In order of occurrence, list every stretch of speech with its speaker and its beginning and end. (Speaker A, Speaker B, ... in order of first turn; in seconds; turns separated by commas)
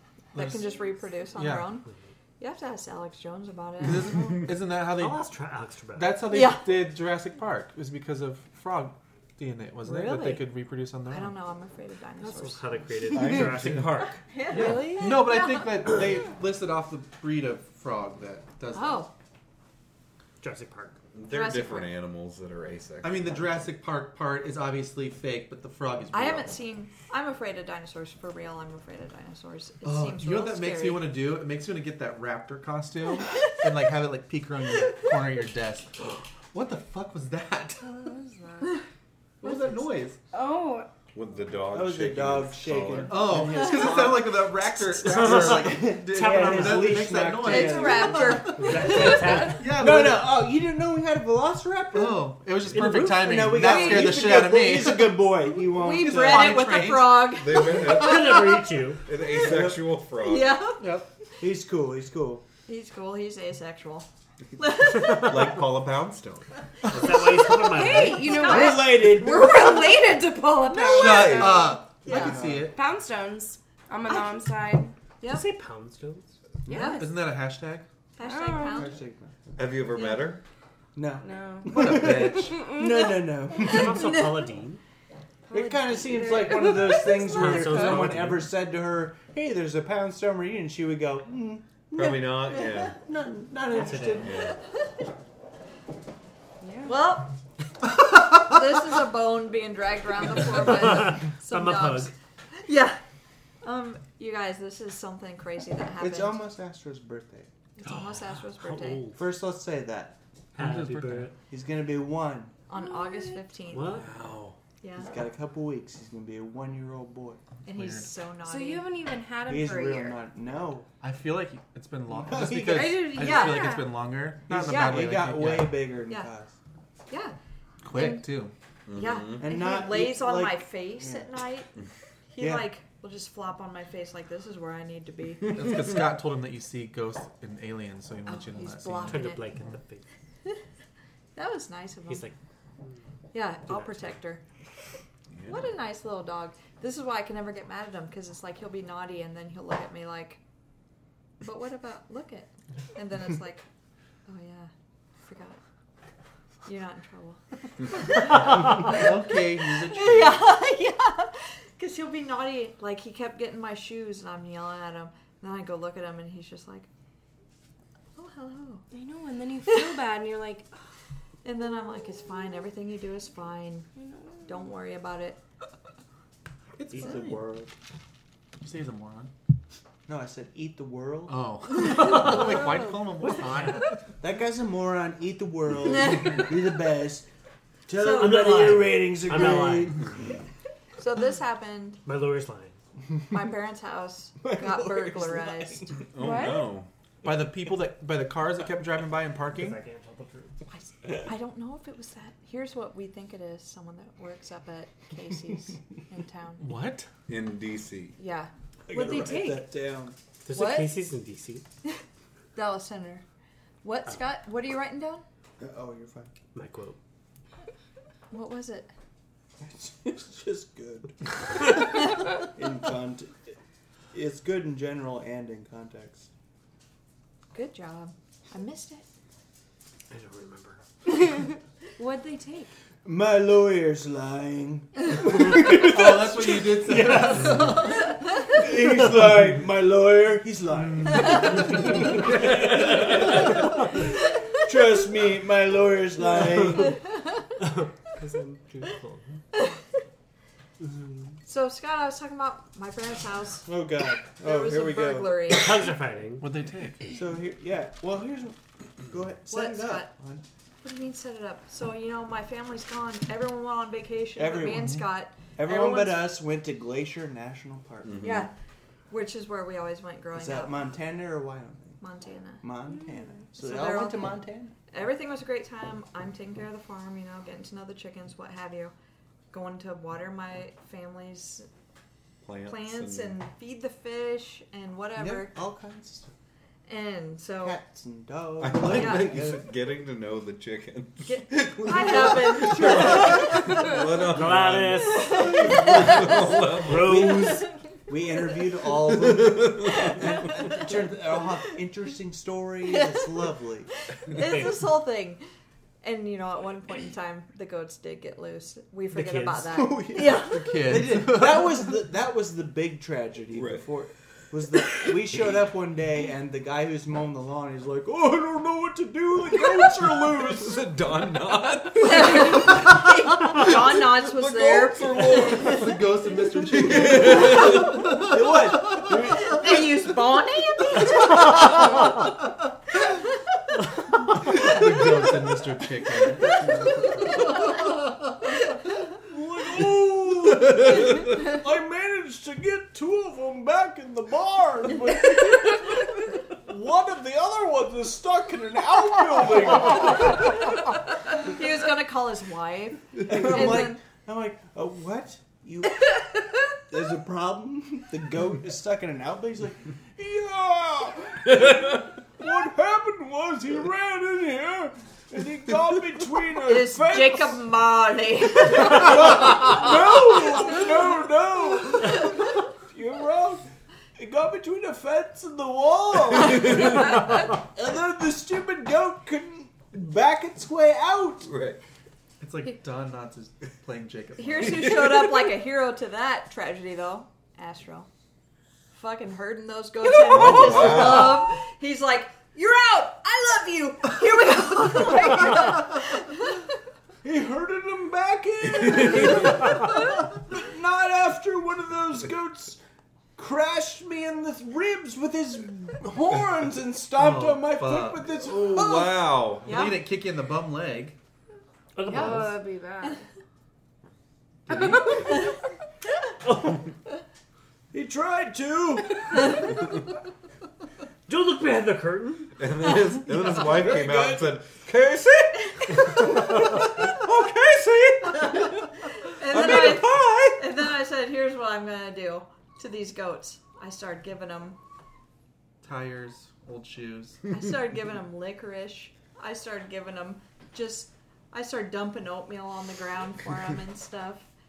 Speaker A: 0.3-0.7, Speaker B: 0.3-1.9, Speaker A: 1.3-1.8, Speaker C: 1.8-2.1, Speaker B: 2.4-4.4, Speaker A: 3.8-5.3, Speaker C: 4.8-6.3, Speaker A: 5.9-11.3, Speaker B: 6.3-6.7, Speaker B: 9.8-10.5, Speaker B: 11.1-12.7, Speaker C: 12.2-14.8, Speaker D: 13.1-14.0, Speaker A: 13.1-19.1, Speaker B: 14.2-15.8, Speaker E: 14.5-15.2, Speaker B: 18.7-19.1, Speaker C: 20.4-21.0, Speaker D: 21.1-23.6, Speaker B: 21.3-22.0, Speaker A: 23.0-26.6, Speaker B: 26.1-31.1, Speaker A: 29.8-38.0, Speaker E: 37.8-38.8, Speaker A: 39.4-40.2, Speaker E: 40.3-40.9, Speaker D: 41.1-43.3, Speaker F: 41.7-48.5, Speaker A: 43.1-48.5, Speaker C: 44.9-47.4, Speaker B: 47.4-49.5, Speaker C: 48.5-49.8, Speaker A: 49.1-50.3, Speaker E: 49.1-49.5, Speaker F: 49.6-56.6, Speaker A: 51.9-55.3, Speaker C: 52.7-53.5, Speaker B: 55.7-57.8, Speaker A: 55.9-57.4, Speaker D: 57.3-60.6, Speaker C: 57.7-59.1, Speaker F: 59.3-59.8, Speaker B: 60.2-60.9, Speaker A: 60.8-61.1, Speaker F: 61.4-62.4, Speaker B: 62.7-64.1, Speaker B: 64.6-65.5, Speaker C: 64.9-65.5, Speaker D: 65.1-66.5, Speaker C: 66.8-68.5, Speaker A: 66.9-67.5, Speaker E: 67.5-71.7, Speaker B: 68.0-68.9, Speaker F: 68.4-69.8, Speaker D: 70.8-71.7, Speaker A: 70.8-72.8, Speaker B: 71.1-72.4, Speaker F: 72.1-72.7, Speaker E: 72.7-74.9, Speaker B: 75.2-75.5, Speaker C: 75.2-76.4, Speaker E: 76.7-77.1, Speaker B: 76.7-77.1, Speaker A: 76.7-77.8, Speaker B: 78.2-78.9, Speaker E: 78.2-78.9, Speaker F: 78.7-79.3, Speaker D: 79.5-80.4, Speaker F: 80.9-84.1, Speaker E: 81.2-83.3, Speaker A: 81.7-82.8, Speaker C: 83.6-84.8, Speaker B: 83.6-84.4, Speaker E: 85.5-87.9, Speaker F: 85.5-94.5, Speaker C: 87.2-88.5, Speaker D: 91.9-93.0, Speaker C: 93.7-94.4, Speaker D: 94.2-94.6, Speaker E: 96.6-97.0, Speaker B: 96.8-97.3, Speaker B: 98.0-103.0, Speaker C: 100.4-102.1, Speaker B: 103.6-106.4, Speaker F: 106.0-107.5, Speaker B: 107.8-109.0, Speaker C: 108.5-109.3, Speaker F: 109.2-110.2, Speaker C: 110.5-111.4, Speaker A: 110.6-111.3, Speaker F: 111.5-112.5, Speaker B: 112.7-114.0, Speaker E: 112.7-113.5, Speaker C: 113.7-114.2, Speaker D: 113.9-114.5, Speaker B: 114.8-115.1, Speaker F: 115.0-117.4, Speaker B: 117.6-118.8, Speaker A: 117.7-118.1, Speaker E: 118.4-120.2, Speaker F: 119.5-120.9, Speaker A: 121.0-125.9, Speaker F: 122.1-123.2, Speaker E: 122.5-124.0, Speaker B: 123.1-123.8, Speaker F: 124.5-126.5, Speaker B: 124.7-125.0, Speaker B: 127.1-127.3, Speaker A: 127.8-128.5, Speaker B: 127.9-128.3, Speaker D: 128.9-129.4, Speaker B: 128.9-131.7, Speaker F: 129.4-131.3, Speaker B: 132.3-135.6, Speaker F: 132.4-132.7, Speaker A: 135.4-139.4, Speaker B: 138.2-139.4, Speaker C: 139.1-140.0, Speaker B: 141.3-142.3, Speaker C: 142.1-142.9, Speaker B: 143.3-144.4, Speaker C: 143.7-144.2, Speaker D: 145.3-145.7, Speaker B: 145.4-150.4, Speaker B: 151.4-153.6, Speaker B: 154.2-154.7, Speaker B: 155.2-155.6, Speaker B: 156.6-157.4, Speaker B: 157.9-159.1, Speaker A: 158.3-160.5, Speaker B: 159.8-166.9, Speaker B: 168.2-168.8, Speaker E: 168.9-170.7, Speaker B: 169.7-169.9, Speaker B: 171.4-173.9, Speaker B: 174.4-175.4, Speaker A: 176.8-177.4, Speaker C: 176.9-177.4, Speaker F: 177.0-177.7, Speaker A: 178.6-179.3, Speaker F: 180.1-181.5, Speaker A: 181.3-184.0, Speaker C: 181.9-183.9, Speaker F: 184.2-187.3, Speaker B: 185.9-186.5, Speaker F: 187.9-190.1, Speaker B: 187.9-188.5, Speaker C: 188.1-190.1, Speaker B: 191.0-192.0, Speaker C: 192.0-192.8, Speaker B: 193.3-195.9, Speaker F: 194.4-196.0, Speaker D: 196.1-196.9, Speaker E: 196.2-196.7, Speaker A: 197.2-199.8, Speaker C: 199.4-200.6, Speaker B: 200.7-206.6, Speaker A: 206.6-207.1, Speaker D: 207.3-208.2, Speaker B: 208.2-209.6, Speaker F: 208.9-210.1, Speaker C: 210.4-211.7, Speaker B: 210.5-211.0, Speaker B: 212.5-213.2, Speaker B: 213.8-215.2, Speaker F: 215.6-216.3, Speaker C: 216.5-217.0, Speaker B: 218.3-218.9, Speaker F: 219.6-223.5, Speaker F: 224.1-226.3, Speaker B: 227.5-229.1, Speaker C: 230.1-230.8, Speaker E: 232.0-232.7, Speaker F: 233.0-237.8, Speaker A: 235.6-238.0, Speaker C: 236.8-237.8, Speaker F: 238.4-247.0, Speaker C: 247.6-249.4, Speaker C: 250.8-251.1, Speaker B: 251.4-253.7, Speaker F: 253.7-255.6, Speaker B: 254.4-255.8, Speaker C: 255.5-256.5, Speaker A: 256.4-257.1, Speaker F: 257.1-260.4, Speaker B: 259.5-260.1, Speaker B: 260.8-266.3, Speaker F: 264.4-265.0, Speaker F: 265.6-268.4, Speaker D: 268.0-268.5, Speaker B: 268.2-268.5, Speaker B: 269.1-270.8, Speaker F: 270.3-272.0, Speaker B: 272.0-272.6, Speaker F: 272.6-274.7, Speaker B: 273.6-274.4, Speaker B: 274.9-278.9, Speaker B: 279.5-281.7, Speaker D: 282.4-283.4, Speaker B: 282.6-285.5, Speaker F: 285.2-286.3, Speaker B: 286.9-287.8, Speaker F: 287.6-289.7, Speaker D: 288.6-297.4, Speaker B: 288.9-289.4, Speaker B: 291.2-294.0, Speaker C: 294.3-297.6, Speaker B: 295.2-296.4, Speaker F: 296.8-303.9, Speaker D: 299.1-300.1, Speaker B: 300.2-300.6, Speaker B: 302.9-303.3, Speaker B: 304.1-305.4, Speaker C: 304.3-304.9, Speaker B: 306.0-310.8, Speaker C: 309.1-310.0, Speaker F: 310.1-320.8, Speaker A: 310.4-311.9, Speaker D: 313.5-313.8, Speaker D: 319.9-325.9, Speaker B: 322.0-325.9, Speaker A: 325.5-328.5, Speaker D: 326.7-328.0, Speaker F: 327.1-329.9, Speaker B: 329.1-332.0, Speaker A: 334.4-336.9, Speaker F: 339.1-350.6, Speaker B: 351.3-354.0, Speaker F: 353.2-356.2, Speaker F: 356.8-367.6, Speaker B: 366.7-369.7, Speaker F: 368.6-381.5, Speaker D: 381.4-381.8, Speaker A: 382.4-385.2, Speaker B: 384.4-388.1, Speaker B: 388.9-396.7, Speaker D: 390.2-391.5, Speaker F: 390.5-391.0, Speaker F: 397.2-402.8, Speaker D: 398.8-399.6, Speaker F: 403.4-409.1, Speaker A: 407.1-408.3, Speaker D: 408.4-409.9, Speaker B: 409.2-410.0, Speaker A: 409.6-411.2, Speaker C: 411.9-412.6, Speaker E: 412.1-413.2, Speaker B: 412.1-412.4, Speaker E: 414.7-415.3, Speaker C: 416.4-416.9, Speaker F: 417.9-419.6, Speaker C: 421.3-422.5, Speaker D: 422.6-428.8, Speaker F: 423.3-424.6, Speaker B: 429.2-434.8, Speaker D: 429.4-430.6, Speaker A: 435.8-437.4, Speaker B: 437.5-444.5